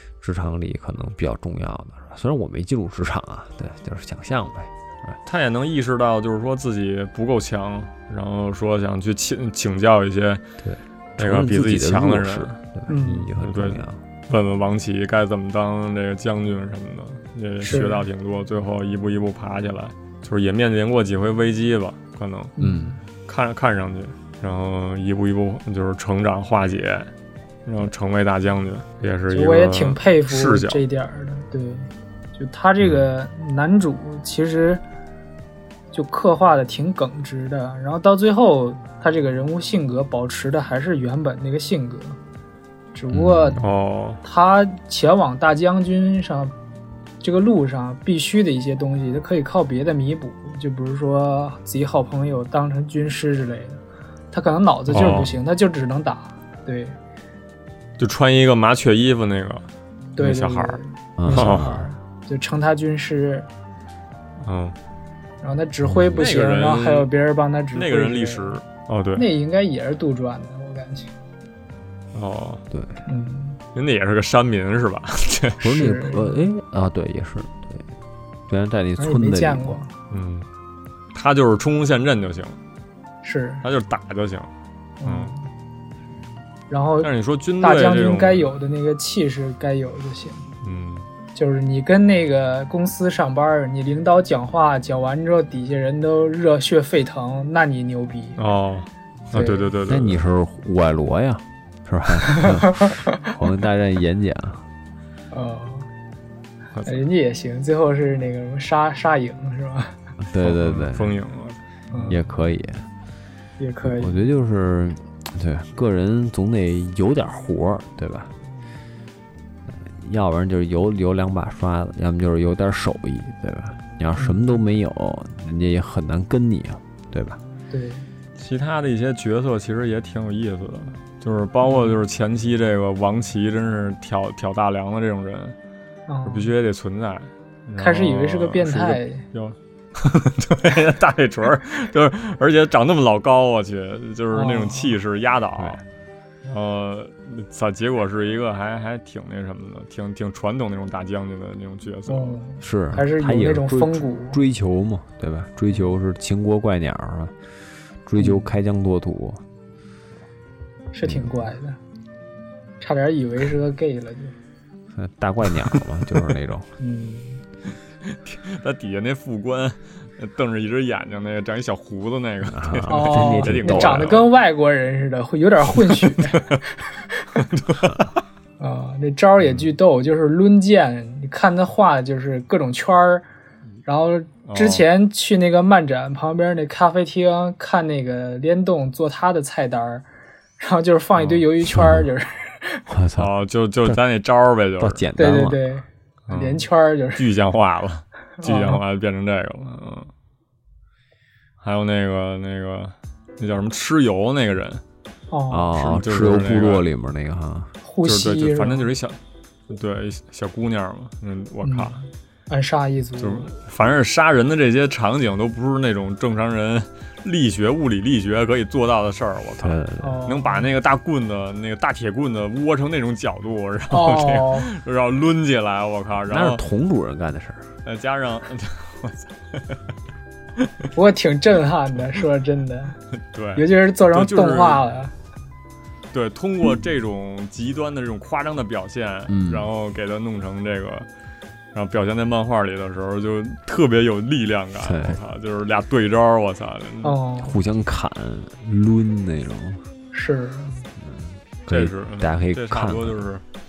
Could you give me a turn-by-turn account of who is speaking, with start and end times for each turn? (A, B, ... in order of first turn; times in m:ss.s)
0:00.2-0:05.2 A
0:05.2-0:10.4 B
0:10.6-0:14.0 A
0:11.2-0:12.6 B
0:12.9-0:13.3 C
0:13.4-0:22.5 B
0:17.6-0:18.0 C
0:22.6-0:23.0 C
0:22.6-0:23.0 A
0:23.2-0:27.1 B
0:27.6-0:30.8 B
0:29.3-0:34.8 C
0:35.9-0:42.2 C
0:42.9-0:43.6 C
0:43.1-0:43.6 A
0:43.6-0:44.2 B
0:44.2-0:46.5 C
0:47.2-0:53.8 C
0:54.3-0:57.0 C
0:54.9-0:55.3 B
0:55.0-0:55.2 A
0:58.0-1:00.8 B
1:00.2-1:03.5 C
1:01.2-1:01.9 A
1:01.3-1:01.7 B
1:04.4-1:04.8 B
1:05.4-1:08.6 C
1:05.8-1:06.3 A
1:06.2-1:07.1 B
1:07.7-1:09.2 B
1:09.1-1:11.1 C
1:12.1-1:12.6 B
1:12.7-1:13.0 A
1:13.1-1:13.6 C
1:13.7-1:15.7 B
1:15.6-1:16.4 C
1:15.6-1:17.9 A
1:18.5-1:19.8 A
1:19.0-1:19.9 C
1:20.1-1:20.5 B
1:21.1-1:22.6 B
1:23.2-1:23.6 C
1:23.6-1:24.5 B
1:25.0-1:25.5 C
1:25.0-1:25.3 B
1:26.7-1:30.5 C
1:27.0-1:28.5 B
1:30.6-1:31.1 B
1:31.3-1:38.4 C
1:38.4-1:40.2 B
1:39.3-1:39.7 C
1:39.8-1:44.6 A
1:42.2-1:43.1 C
1:45.3-1:45.9 C
1:46.7-1:47.0 B
1:46.8-1:50.0 C
1:50.2-1:51.2 A
1:50.4-1:51.6 B
1:51.9-1:52.2 C
1:52.1-1:52.9 A
1:53.6-1:54.2 C
1:53.8-1:58.3 A
1:59.7-2:07.4 A
2:04.2-2:04.4 C
2:07.7-2:08.1 C
2:08.4-2:15.5 B
2:11.6-2:12.0 C
2:16.1-2:16.5 C
2:16.2-2:25.8 B
2:17.8-2:19.2 C
2:24.3-2:24.9 C
2:26.4-2:32.4 B
2:32.1-2:34.4 C
2:32.6-2:37.4 A
2:38.0-2:39.4 A
2:38.2-2:38.5 C
2:40.9-2:41.8 C
2:41.0-2:41.4 A
2:42.8-2:44.3 C
2:44.9-2:46.7 A
2:46.8-2:47.4 C
2:48.0-2:54.3 B
2:52.5-2:54.2 A
2:52.9-2:57.2 C
2:56.0-2:56.6 B
2:57.4-2:58.1 B
2:58.6-3:03.2 C
2:59.4-2:59.7 B
3:03.8-3:10.1 C
3:04.4-3:04.8 B
3:10.6-3:12.9 C
3:11.2-3:11.4 B
3:11.6-3:12.1 A
3:12.9-3:13.3 A
3:13.2-3:15.0 B
3:14.8-3:15.7 A
3:15.2-3:17.2 C
3:16.3-3:20.1 B
3:18.4-3:18.8 C
3:21.6-3:24.8 B
3:25.3-3:25.8 C
3:25.5-3:27.7 A
3:25.8-3:26.9 B
3:27.8-3:28.9 C
3:28.0-3:29.2 B
3:29.7-3:32.0 B
3:31.6-3:31.9 C
3:32.5-3:33.5 C
3:33.2-3:46.6 B
3:39.6-3:40.2 A
3:40.0-3:40.7 C
3:43.9-3:44.7 C
3:46.3-3:47.7 A
3:47.8-3:49.8 B
3:50.6-3:50.9 B
3:50.9-3:53.0 C
3:53.3-3:54.8 B
3:53.6-3:55.1 C
3:56.1-4:01.1 B
3:59.3-3:59.7 A
4:01.7-4:07.2 B
4:04.8-4:05.2 A
4:07.0-4:07.6 C
4:07.4-4:09.8 A
4:10.1-4:10.8 C
4:11.0-4:13.2 A
4:11.7-4:13.4 B